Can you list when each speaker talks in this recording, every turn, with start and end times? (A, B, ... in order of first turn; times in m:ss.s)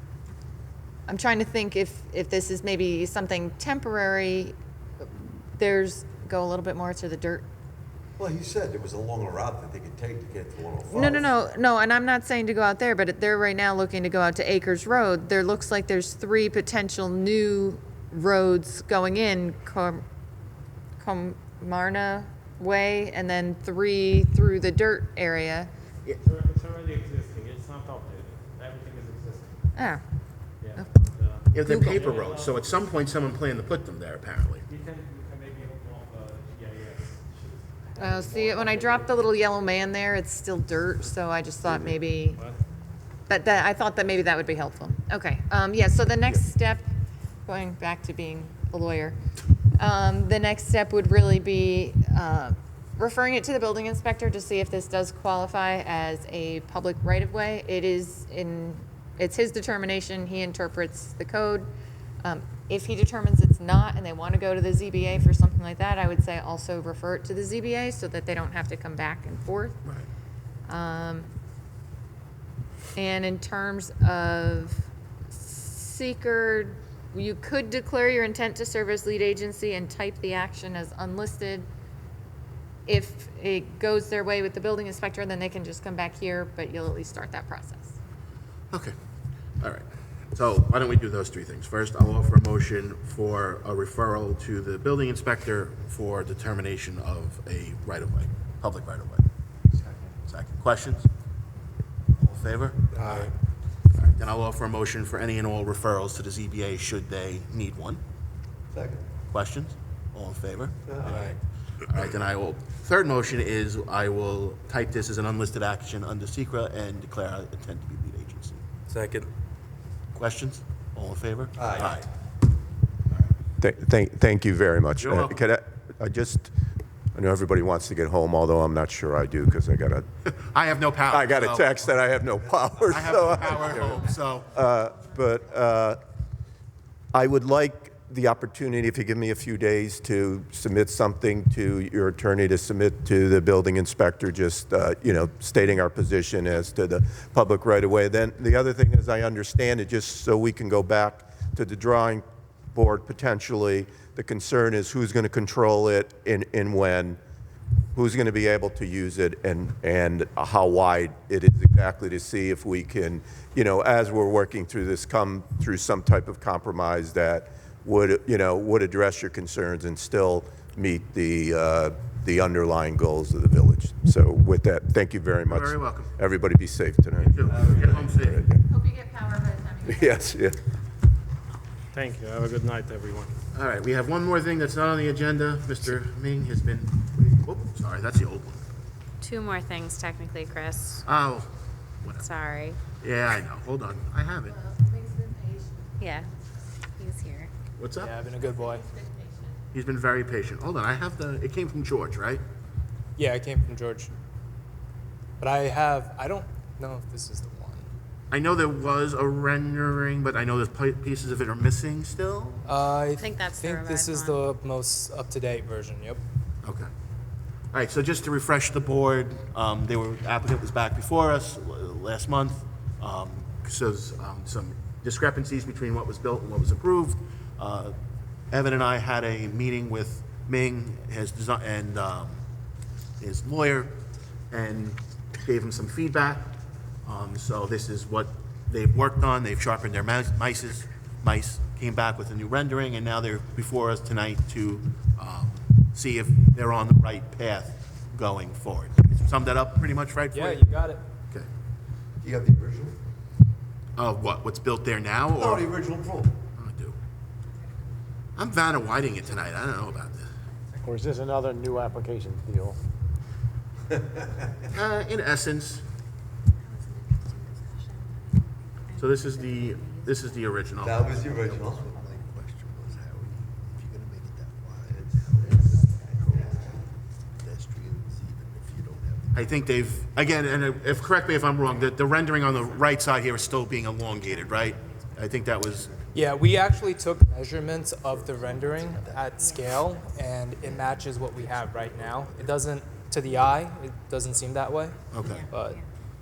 0:01.1-0:07.5 A
0:08.2-0:11.3 B
0:10.9-0:20.0 A
0:21.0-0:25.7 A
0:26.2-0:29.6 C
0:29.8-0:30.0 A
0:30.6-0:33.0 C
0:31.5-0:34.6 D
0:31.6-0:32.0 A
0:34.7-0:39.6 C
0:38.0-0:42.4 A
0:41.6-0:42.0 E
0:42.3-0:42.6 C
0:43.3-0:46.9 A
0:47.5-0:49.2 A
0:49.8-1:01.7 A
1:02.2-1:09.8 A
1:10.7-1:11.3 A
1:13.0-1:21.7 A
1:22.9-1:27.9 A
1:29.6-1:39.3 D
1:39.7-1:40.1 B
1:40.3-1:41.1 D
1:42.2-1:43.3 D
1:44.0-1:48.0 D
1:48.7-1:49.0 B
1:49.3-1:51.4 D
1:50.9-1:51.3 B
1:51.9-1:58.6 D
2:00.2-2:02.1 D
2:01.6-2:02.0 B
2:03.6-2:06.5 E
2:05.0-2:05.4 D
2:07.2-2:10.0 E
2:10.3-2:11.9 D
2:11.1-2:16.0 E
2:12.9-2:14.5 D
2:17.1-2:37.2 E
2:38.0-2:58.7 E
2:55.5-2:56.1 D
2:57.2-2:58.4 D
2:58.7-3:00.3 A
2:59.9-3:00.6 E
3:01.9-3:03.3 C
3:03.5-3:08.6 D
3:09.2-3:11.0 F
3:11.0-3:11.5 D
3:12.0-3:12.3 D
3:12.2-3:12.8 F
3:12.9-3:14.6 D
3:14.5-3:16.0 A
3:16.0-3:16.3 F
3:17.0-3:17.5 F
3:17.8-3:18.1 D
3:18.0-3:18.8 G
3:18.7-3:19.5 A
3:19.7-3:22.4 D
3:23.2-3:24.1 G
3:25.4-3:27.9 G
3:28.3-3:32.6 D
3:32.6-3:36.2 G
3:33.2-3:34.4 F
3:36.6-3:36.9 D
3:37.7-3:48.0 D
3:48.5-3:52.4 D
3:53.2-3:53.9 D
3:54.5-4:10.7 D
4:10.3-4:11.0 G
4:12.2-4:13.0 B
4:14.0-4:15.8 D
4:15.3-4:16.4 B
4:16.6-4:17.0 D
4:18.4-4:20.3 D
4:20.8-4:22.8 H
4:24.7-4:25.8 D
4:29.0-4:31.3 D
4:30.8-4:36.9 B
4:37.4-4:39.8 B
4:39.3-4:45.9 D
4:45.7-4:46.2 B
4:46.1-4:55.8 G
4:47.9-4:49.2 B
4:52.1-4:52.4 B
4:55.1-4:55.5 D
4:55.2-4:55.5 F